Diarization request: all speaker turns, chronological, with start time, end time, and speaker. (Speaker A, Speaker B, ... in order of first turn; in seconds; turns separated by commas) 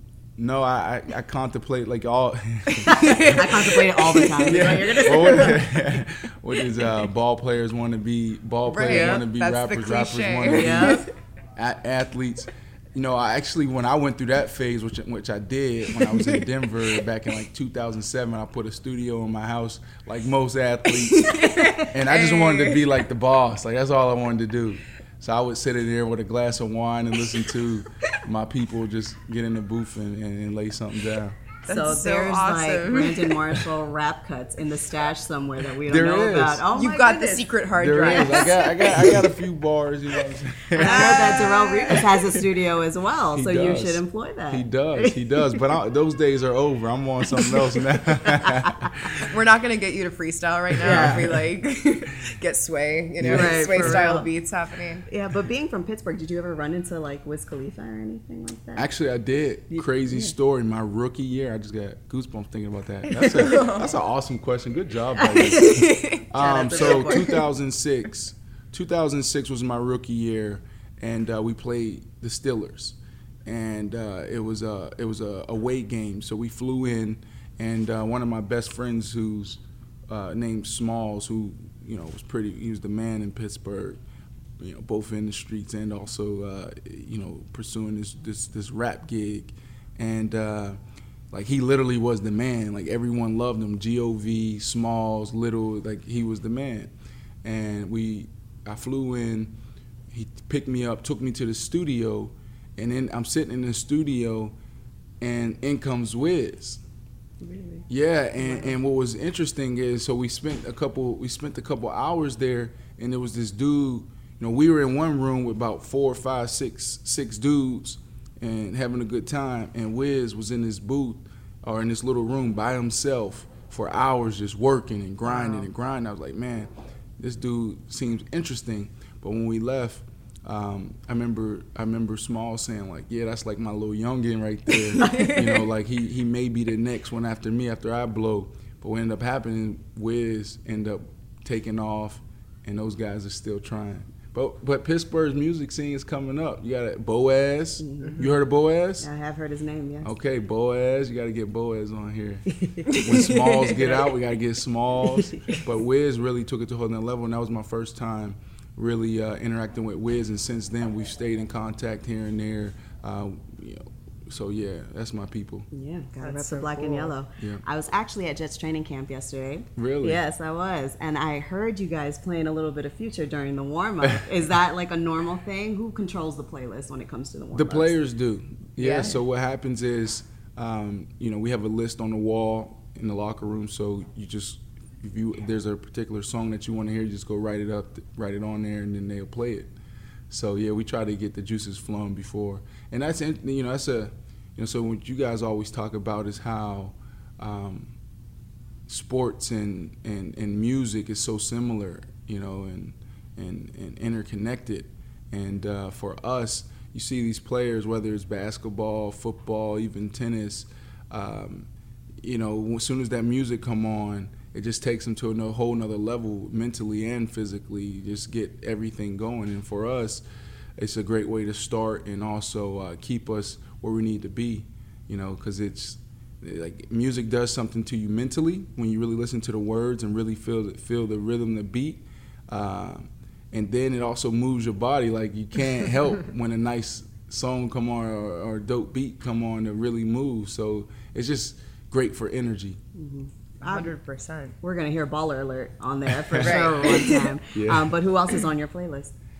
Speaker A: 0.4-3.3, Speaker B: 2.9-5.6, Speaker C: 2.9-5.5, Speaker A: 4.4-31.4, Speaker C: 8.7-11.1, Speaker B: 8.8-9.2, Speaker B: 10.5-11.1, Speaker C: 21.1-22.9, Speaker C: 31.6-33.5, Speaker B: 31.6-38.5, Speaker A: 35.9-36.7, Speaker C: 36.7-39.3, Speaker A: 37.8-41.5, Speaker B: 40.7-45.6, Speaker C: 40.8-42.0, Speaker A: 43.3-49.2, Speaker B: 48.2-48.9, Speaker C: 49.2-55.1, Speaker B: 50.8-51.3, Speaker A: 50.9-51.4, Speaker A: 53.2-54.1, Speaker B: 53.2-54.3, Speaker B: 55.1-58.9, Speaker A: 58.8-84.0, Speaker B: 59.7-60.3, Speaker C: 63.2-63.9, Speaker C: 65.4-66.2, Speaker B: 66.3-67.3, Speaker A: 84.6-90.8, Speaker A: 91.3-96.9, Speaker A: 97.4-99.5, Speaker A: 100.1-104.5, Speaker A: 105.2-106.8, Speaker B: 107.4-107.8, Speaker A: 107.9-149.1, Speaker C: 125.3-125.6, Speaker B: 135.0-135.3, Speaker C: 135.0-135.4, Speaker B: 147.8-148.3, Speaker B: 149.0-150.1, Speaker A: 150.0-165.7, Speaker B: 152.6-152.9, Speaker C: 152.9-154.0, Speaker B: 165.7-177.9, Speaker C: 166.2-167.2, Speaker A: 169.8-170.2, Speaker A: 177.5-189.7, Speaker C: 178.8-179.2, Speaker A: 190.3-197.9, Speaker A: 198.9-211.7, Speaker A: 212.2-220.2, Speaker A: 220.8-242.8, Speaker B: 242.9-243.9, Speaker C: 243.6-244.6, Speaker B: 244.6-249.1, Speaker A: 246.3-246.8, Speaker C: 246.4-247.3, Speaker A: 247.5-247.9